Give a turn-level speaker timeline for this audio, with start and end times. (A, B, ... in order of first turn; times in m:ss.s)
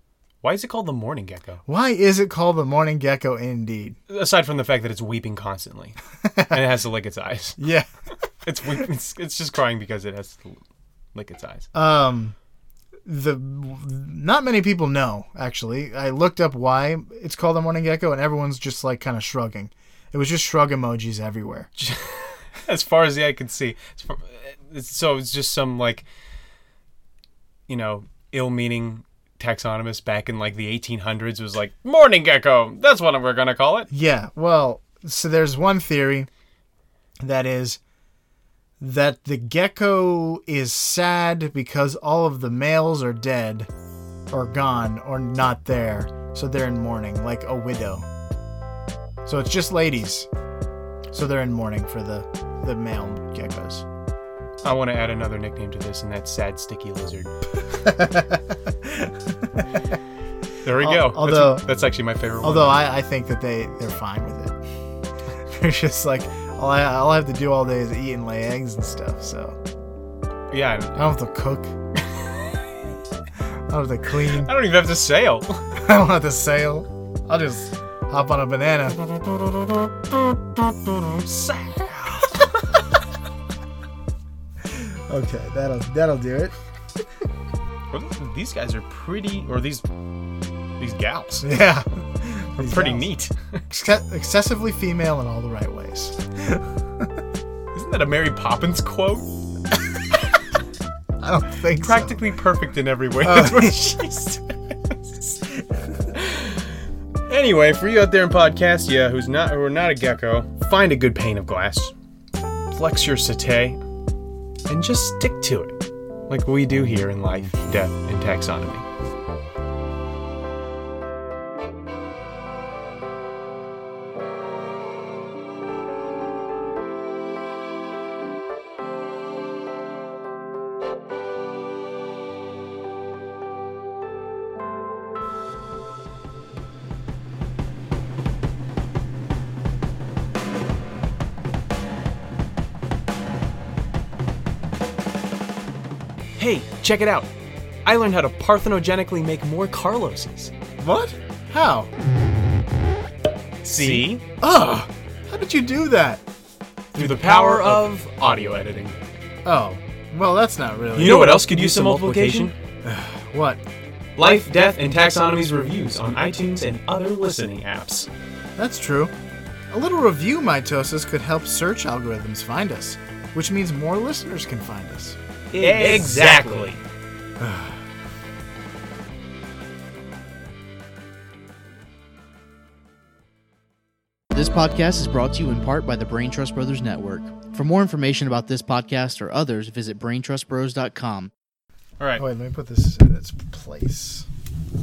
0:00.4-0:01.6 A
0:01.7-0:04.0 B
0:04.1-0:07.6 A
0:06.2-0:06.6 B
0:07.6-0:07.9 B
0:08.4-0:10.6 A
0:11.2-0:11.7 A
0:11.7-0:12.4 B
0:13.1-0:21.7 B
0:21.8-0:26.1 A
0:27.7-0:33.9 A
0:33.9-0:36.3 B
0:37.2-0:37.8 B
0:38.8-0:43.7 B
0:44.3-0:48.1 B
0:49.2-0:50.3 B
0:51.1-0:53.9 B
0:54.6-0:57.3 A
0:57.7-1:00.0 B
1:00.6-1:02.8 A
1:00.8-1:01.7 B
1:02.4-1:04.6 B
1:05.5-1:09.6 B
1:10.5-1:11.0 A
1:11.0-1:11.8 B
1:12.1-1:12.4 A
1:13.7-1:14.5 B
1:14.3-1:15.7 A
1:15.8-1:19.1 B
1:19.2-1:22.5 A
1:24.7-1:26.6 B
1:27.9-1:29.8 A
1:30.8-1:31.5 A
1:31.4-1:33.1 B
1:32.6-1:33.6 A
1:33.7-1:37.1 B
1:37.7-1:39.3 A
1:41.2-1:42.2 B
1:41.7-1:45.4 A
1:43.2-1:43.8 B
1:46.1-1:51.9 A
1:52.7-1:53.8 A
1:54.7-1:58.9 A
2:26.4-2:27.3 A
2:27.8-2:30.5 A
2:30.8-2:31.9 B
2:33.6-2:34.2 A
2:33.8-2:36.2 B
2:37.0-2:39.0 A
2:37.0-2:37.8 B
2:39.4-2:41.4 B
2:41.0-2:42.6 A
2:42.8-2:43.6 B
2:44.2-2:48.1 A
2:48.6-2:49.1 B
2:49.7-2:56.3 B
2:55.5-2:56.8 A
2:57.4-2:57.8 B
3:04.3-3:11.3 C
3:12.2-3:14.3 B